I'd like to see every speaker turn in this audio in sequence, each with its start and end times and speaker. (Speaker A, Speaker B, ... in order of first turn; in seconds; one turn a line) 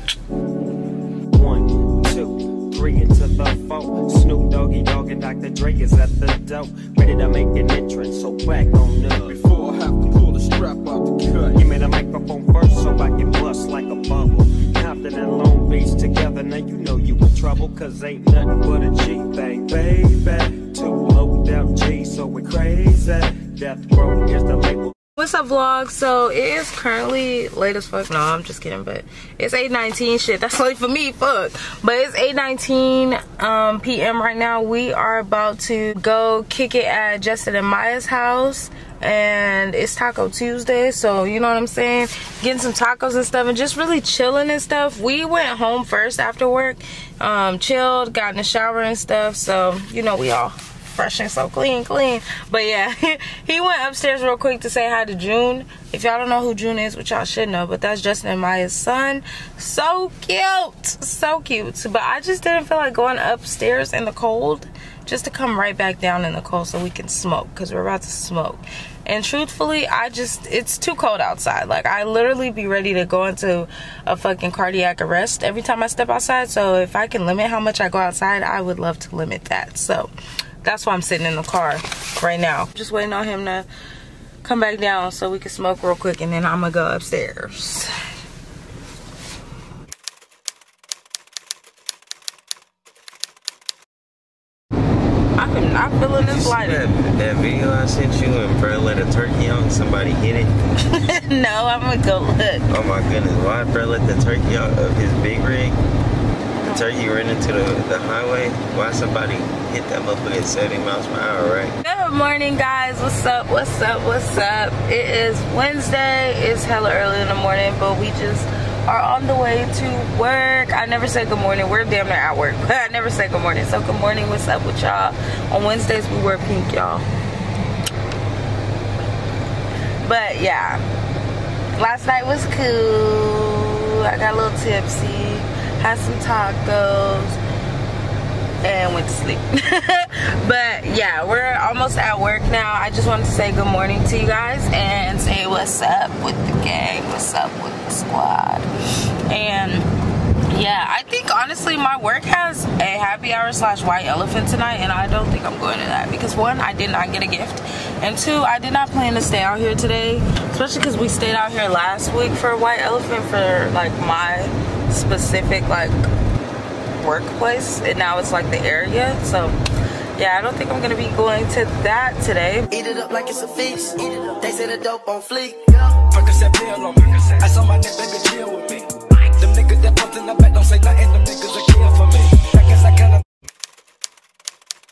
Speaker A: 1.3-9.3
Speaker B: 9.5-10.6
Speaker A: 11.6-24.9
Speaker C: 25.2-80.1
Speaker C: 80.6-83.7
Speaker C: 84.4-87.9
Speaker C: 95.3-96.9
Speaker D: 96.2-100.5
Speaker C: 100.9-102.6
Speaker D: 102.7-105.8
Speaker D: 106.6-111.8
Speaker C: 111.8-127.0
Speaker C: 130.0-130.8
Speaker C: 131.8-137.4
Speaker C: 138.6-148.7
Speaker C: 149.3-149.9
Speaker C: 150.5-165.9
Speaker C: 167.0-169.6
Speaker C: 170.2-172.7
Speaker E: 172.7-176.0
Speaker B: 176.1-183.2